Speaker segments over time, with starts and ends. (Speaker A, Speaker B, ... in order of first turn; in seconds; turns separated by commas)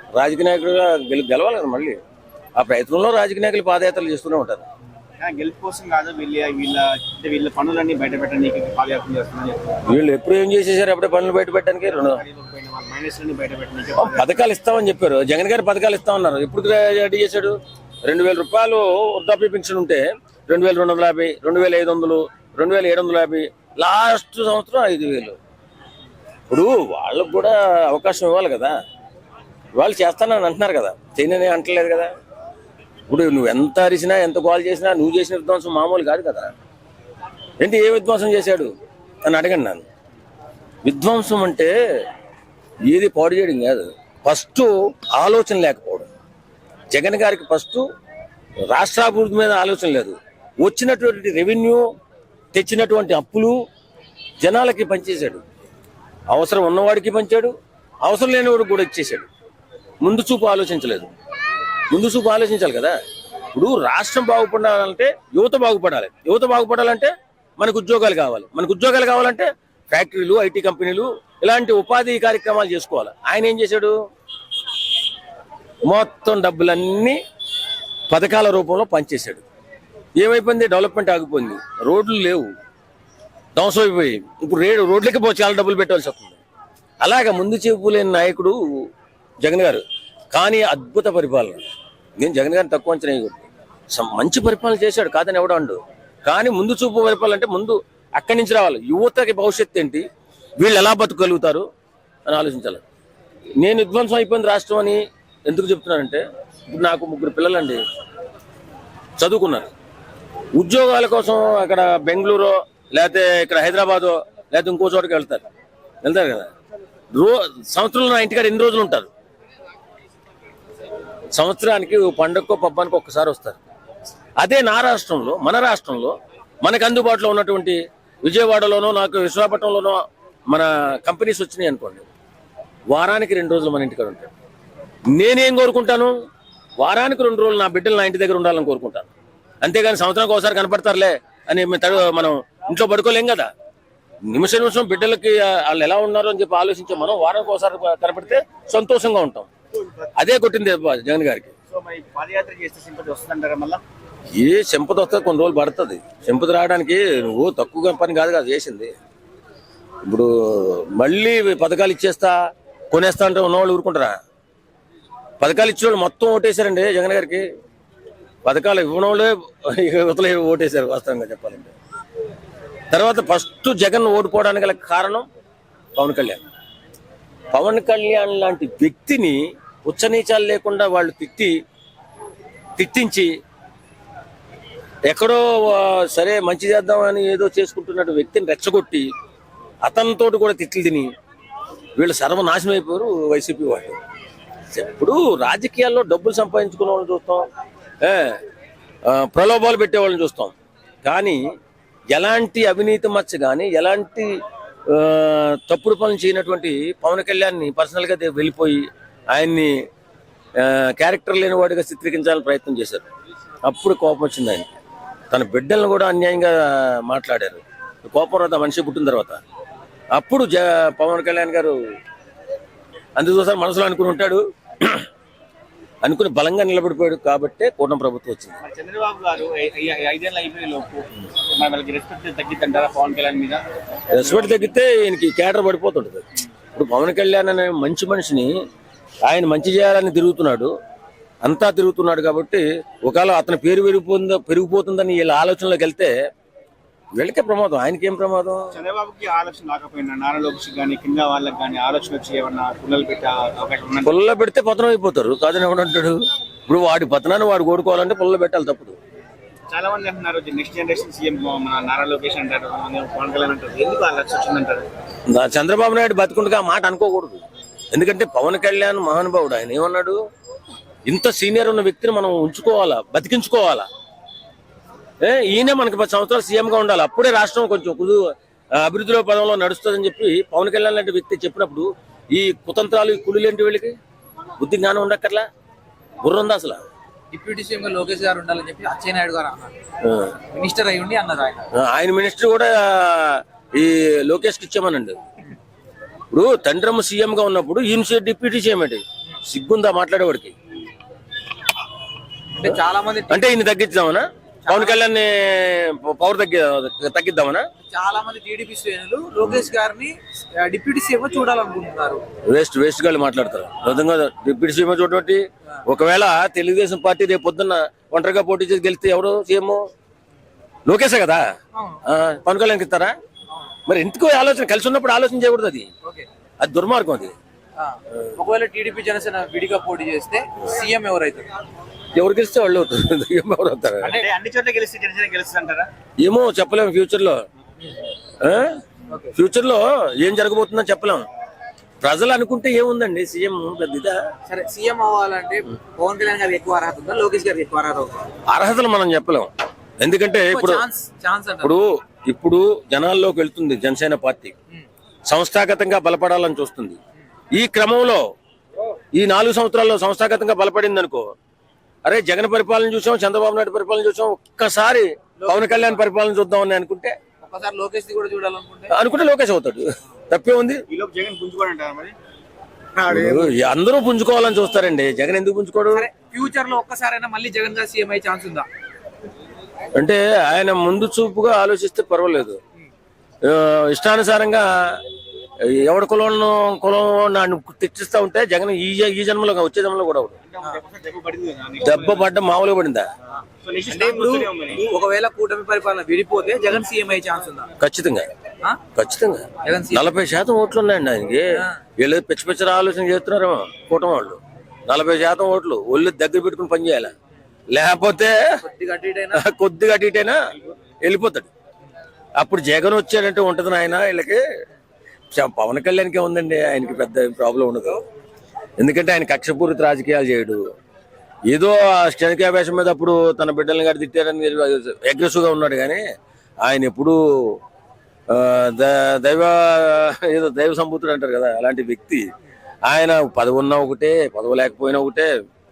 Speaker A: 0.1-2.0, Speaker A: 2.6-4.6, Speaker B: 5.2-9.9, Speaker A: 9.9-12.2, Speaker B: 11.8-14.3, Speaker A: 14.0-25.4, Speaker A: 26.5-28.7, Speaker A: 29.7-32.1, Speaker A: 33.1-36.5, Speaker A: 37.6-38.7, Speaker A: 39.2-39.8, Speaker A: 40.8-41.7, Speaker A: 42.9-46.1, Speaker A: 46.9-47.8, Speaker A: 48.7-51.8, Speaker A: 52.5-53.5, Speaker A: 54.4-55.4, Speaker A: 56.3-57.5, Speaker A: 58.0-59.3, Speaker A: 60.0-61.1, Speaker A: 61.9-62.9, Speaker A: 63.5-73.9, Speaker A: 75.9-77.2, Speaker A: 78.1-79.4, Speaker A: 80.2-82.5, Speaker A: 83.5-86.4, Speaker A: 87.0-88.5, Speaker A: 89.4-91.6, Speaker A: 92.2-100.0, Speaker A: 100.6-101.6, Speaker A: 102.3-102.8, Speaker A: 103.6-107.8, Speaker A: 109.2-109.7, Speaker A: 110.5-115.4, Speaker A: 116.0-116.5, Speaker A: 117.1-119.1, Speaker A: 121.3-123.6, Speaker A: 124.4-132.0, Speaker A: 132.9-134.3, Speaker A: 135.1-136.1, Speaker A: 136.8-139.1, Speaker A: 139.6-143.5, Speaker A: 144.3-149.5, Speaker A: 150.2-151.5, Speaker B: 151.7-153.8, Speaker A: 154.3-158.9, Speaker A: 160.0-162.3, Speaker A: 162.9-164.2, Speaker A: 165.4-167.4, Speaker A: 168.4-171.7, Speaker A: 172.9-175.2, Speaker A: 175.9-176.4, Speaker A: 177.5-181.5, Speaker A: 182.8-183.3, Speaker A: 185.1-189.1, Speaker A: 189.8-191.1, Speaker A: 192.0-193.9, Speaker A: 194.7-197.4, Speaker A: 198.0-198.4, Speaker A: 199.1-201.4, Speaker A: 202.1-204.3, Speaker A: 204.9-209.8, Speaker A: 210.6-213.0, Speaker A: 213.6-214.7, Speaker A: 215.3-219.4, Speaker A: 220.1-221.7, Speaker A: 223.2-225.0, Speaker A: 226.0-228.6, Speaker B: 228.6-233.6, Speaker A: 234.1-238.5, Speaker B: 234.2-234.7, Speaker A: 239.2-240.7, Speaker A: 241.4-246.1, Speaker A: 247.2-248.7, Speaker B: 248.7-254.1, Speaker A: 254.0-258.9, Speaker B: 259.7-264.9, Speaker A: 265.3-267.4, Speaker A: 267.9-270.2, Speaker A: 271.1-273.9, Speaker A: 275.2-278.2, Speaker A: 278.8-283.9, Speaker A: 284.6-285.4, Speaker A: 286.2-286.8, Speaker C: 287.3-289.7, Speaker A: 290.0-290.3, Speaker C: 290.5-291.7, Speaker A: 291.7-295.2, Speaker A: 296.3-300.5, Speaker C: 302.5-303.5, Speaker A: 303.3-307.6, Speaker C: 304.6-305.0, Speaker C: 307.9-312.2, Speaker A: 312.5-319.8, Speaker A: 320.9-321.4, Speaker C: 321.7-322.0, Speaker A: 322.0-323.1, Speaker A: 323.9-325.9, Speaker A: 326.6-327.3, Speaker C: 327.8-331.5, Speaker A: 332.1-334.2, Speaker B: 334.0-335.9, Speaker A: 336.2-337.4, Speaker A: 338.4-338.8, Speaker A: 339.3-341.2, Speaker A: 342.0-344.2, Speaker C: 344.5-348.2, Speaker A: 348.5-350.8, Speaker C: 350.5-351.7, Speaker A: 351.6-354.5, Speaker A: 355.3-357.0, Speaker A: 357.5-358.2, Speaker A: 359.1-361.3, Speaker A: 362.0-367.1, Speaker C: 365.4-366.0, Speaker C: 367.4-368.9, Speaker A: 368.9-370.8, Speaker B: 370.9-372.1, Speaker B: 372.9-373.5, Speaker A: 373.1-376.1, Speaker C: 375.9-378.7, Speaker A: 379.9-382.6, Speaker A: 383.4-385.0, Speaker A: 385.6-390.4, Speaker B: 390.4-392.3, Speaker A: 391.8-393.1, Speaker B: 393.6-394.9, Speaker C: 393.9-397.7, Speaker A: 397.8-398.3, Speaker A: 398.9-407.1, Speaker C: 399.6-400.1, Speaker A: 407.7-408.6, Speaker C: 408.6-409.4, Speaker A: 409.3-410.4, Speaker A: 411.0-411.5, Speaker A: 412.4-414.4, Speaker A: 415.3-418.0, Speaker A: 418.8-420.6, Speaker A: 421.5-426.0, Speaker A: 426.6-427.6, Speaker A: 428.3-432.2, Speaker A: 432.9-435.3